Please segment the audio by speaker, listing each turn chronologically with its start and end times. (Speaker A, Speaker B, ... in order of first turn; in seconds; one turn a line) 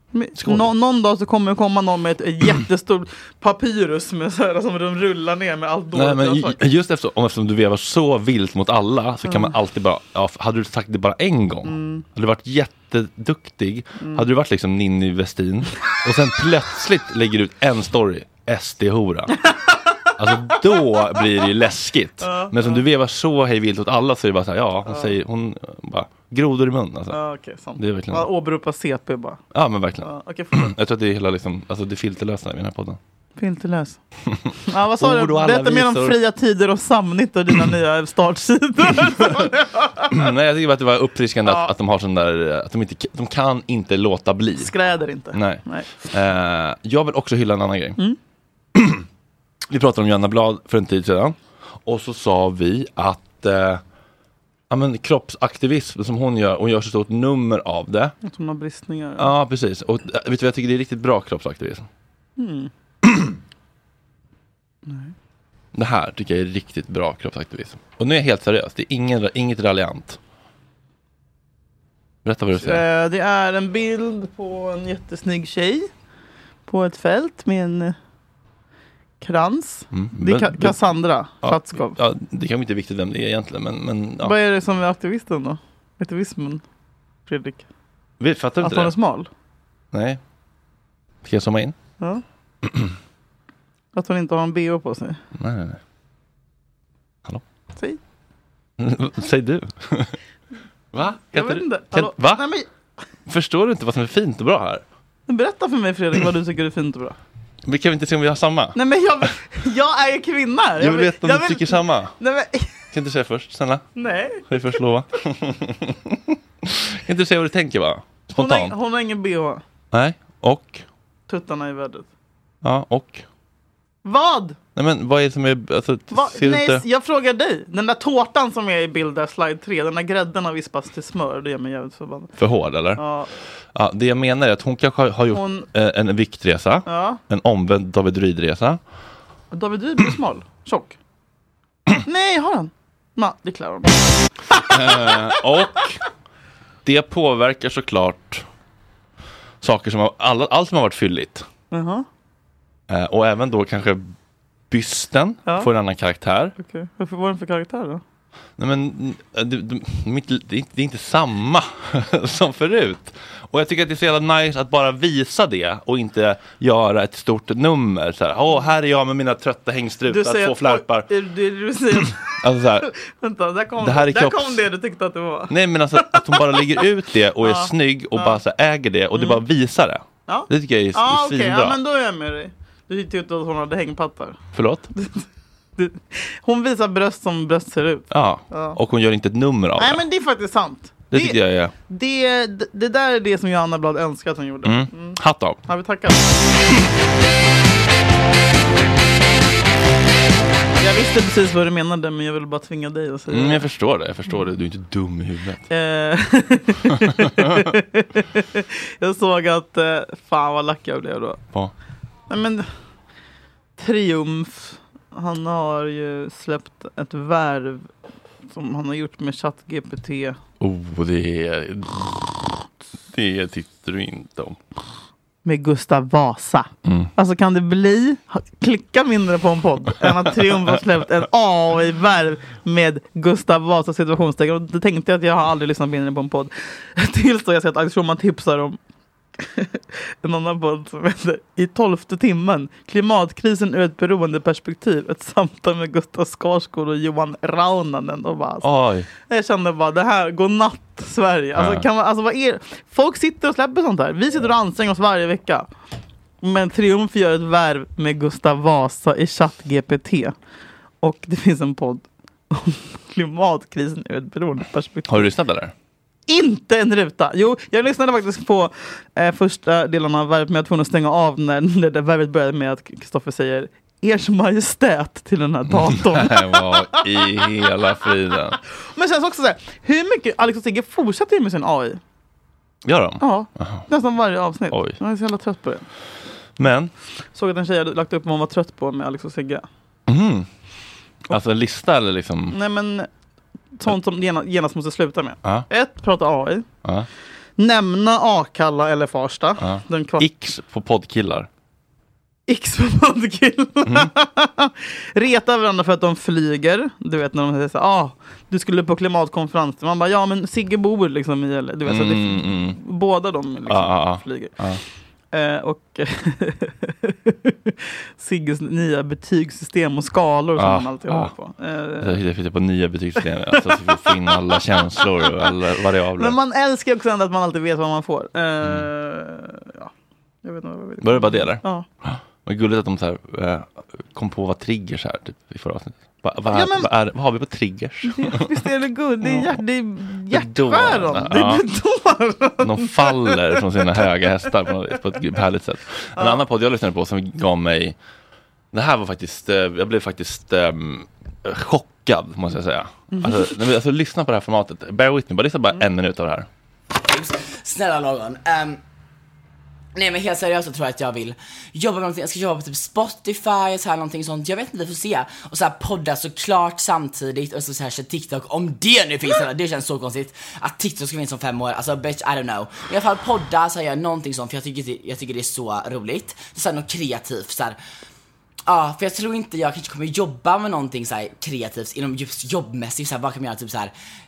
Speaker A: 0.1-6.6
Speaker B: 0.3-0.7
Speaker B: 5.9-19.4
Speaker A: 9.2-9.5
Speaker A: 11.6-12.0
Speaker A: 14.0-14.2
Speaker A: 19.4-20.6
Speaker B: 20.2-27.2
Speaker A: 22.2-22.8
Speaker A: 24.9-25.1
Speaker A: 27.1-29.4
Speaker B: 27.8-28.3
Speaker B: 29.5-33.0
Speaker A: 30.0-30.7
Speaker A: 33.4-34.0
Speaker A: 34.6-40.2
Speaker B: 35.0-36.2
Speaker B: 39.1-39.4
Speaker B: 40.1-44.7
Speaker A: 41.4-41.7
Speaker A: 44.6-46.0
Speaker B: 45.3-48.0
Speaker B: 48.7-49.0
Speaker B: 49.7-53.8
Speaker B: 54.7-58.1
Speaker A: 58.2-59.3
Speaker B: 59.2-61.9
Speaker A: 62.4-62.7
Speaker A: 64.8-65.1
Speaker B: 65.7-70.2
Speaker B: 72.2-72.8
Speaker A: 72.6-75.9
Speaker A: 76.7-78.0
Speaker A: 79.2-82.0
Speaker B: 79.9-80.8
Speaker B: 81.4-84.3
Speaker A: 84.2-86.6
Speaker A: 87.3-87.6
Speaker B: 88.2-88.9
Speaker A: 88.6-89.3
Speaker B: 89.9-90.2
Speaker B: 91.2-91.7
Speaker A: 93.9-95.2
Speaker B: 95.4-95.8
Speaker B: 98.8-100.2
Speaker B: 100.9-102.4
Speaker A: 101.3-102.7
Speaker B: 103.3-104.8
Speaker A: 105.3-107.2
Speaker B: 107.7-108.8
Speaker A: 108.7-112.8
Speaker B: 110.8-112.2
Speaker B: 112.9-113.9
Speaker A: 114.0-114.5
Speaker B: 114.5-118.7
Speaker A: 118.3-119.6
Speaker B: 119.9-120.8
Speaker A: 121.3-122.1
Speaker B: 122.6-123.2
Speaker A: 124.0-124.6
Speaker B: 124.8-126.8
Speaker A: 126.1-132.3
Speaker B: 132.4-133.0
Speaker A: 132.9-133.3
Speaker B: 133.7-138.8
Speaker A: 135.3-135.7
Speaker A: 136.8-137.2
Speaker A: 139.5-141.0
Speaker A: 142.0-145.2
Speaker B: 144.6-146.0
Speaker B: 146.8-148.4
Speaker B: 149.6-151.4
Speaker A: 151.7-152.1
Speaker B: 152.9-154.1
Speaker B: 154.7-156.5
Speaker A: 156.6-158.0
Speaker B: 158.6-171.1
Speaker A: 170.1-172.3
Speaker B: 172.3-172.9
Speaker A: 172.9-175.5
Speaker B: 173.8-174.6
Speaker B: 175.5-181.8
Speaker A: 176.0-176.6
Speaker A: 177.4-178.4
Speaker A: 180.3-184.4
Speaker B: 184.5-184.9
Speaker A: 184.9-185.2
Speaker A: 185.8-188.8
Speaker B: 188.1-190.0
Speaker A: 189.8-196.3
Speaker B: 191.1-191.7
Speaker B: 194.6-195.6
Speaker A: 200.8-203.6
Speaker B: 203.3-205.7
Speaker A: 205.7-211.4
Speaker A: 212.3-212.7
Speaker A: 213.8-217.9
Speaker A: 218.5-220.4
Speaker B: 220.6-224.6
Speaker A: 225.4-238.8
Speaker B: 226.8-227.1
Speaker A: 239.4-248.7
Speaker B: 248.6-249.1
Speaker A: 249.3-255.7
Speaker B: 251.6-251.8
Speaker A: 256.4-260.3
Speaker A: 261.0-265.3
Speaker B: 265.1-265.7
Speaker A: 266.3-277.0
Speaker B: 275.7-278.6
Speaker A: 278.9-282.0
Speaker B: 282.8-283.9
Speaker A: 283.2-285.8
Speaker B: 284.7-285.0
Speaker B: 286.6-286.9
Speaker A: 287.3-289.6
Speaker B: 290.1-290.5
Speaker B: 291.3-292.6
Speaker A: 292.5-293.1
Speaker A: 293.8-296.6
Speaker A: 297.6-300.2
Speaker B: 299.6-301.5
Speaker A: 302.5-314.5
Speaker B: 311.9-312.8
Speaker B: 313.7-314.8
Speaker A: 315.3-322.2
Speaker B: 320.6-321.3
Speaker B: 322.0-326.4
Speaker A: 323.9-324.4
Speaker A: 326.2-329.9
Speaker A: 330.4-331.9
Speaker B: 331.0-338.4
Speaker A: 336.5-336.9
Speaker A: 338.1-343.6
Speaker B: 339.2-339.6
Speaker B: 340.3-341.6
Speaker B: 342.6-347.9
Speaker B: 348.7-356.5
Speaker A: 353.1-353.5
Speaker C: 356.9-358.8
Speaker C: 359.9-377.8
Speaker C: 378.7-383.9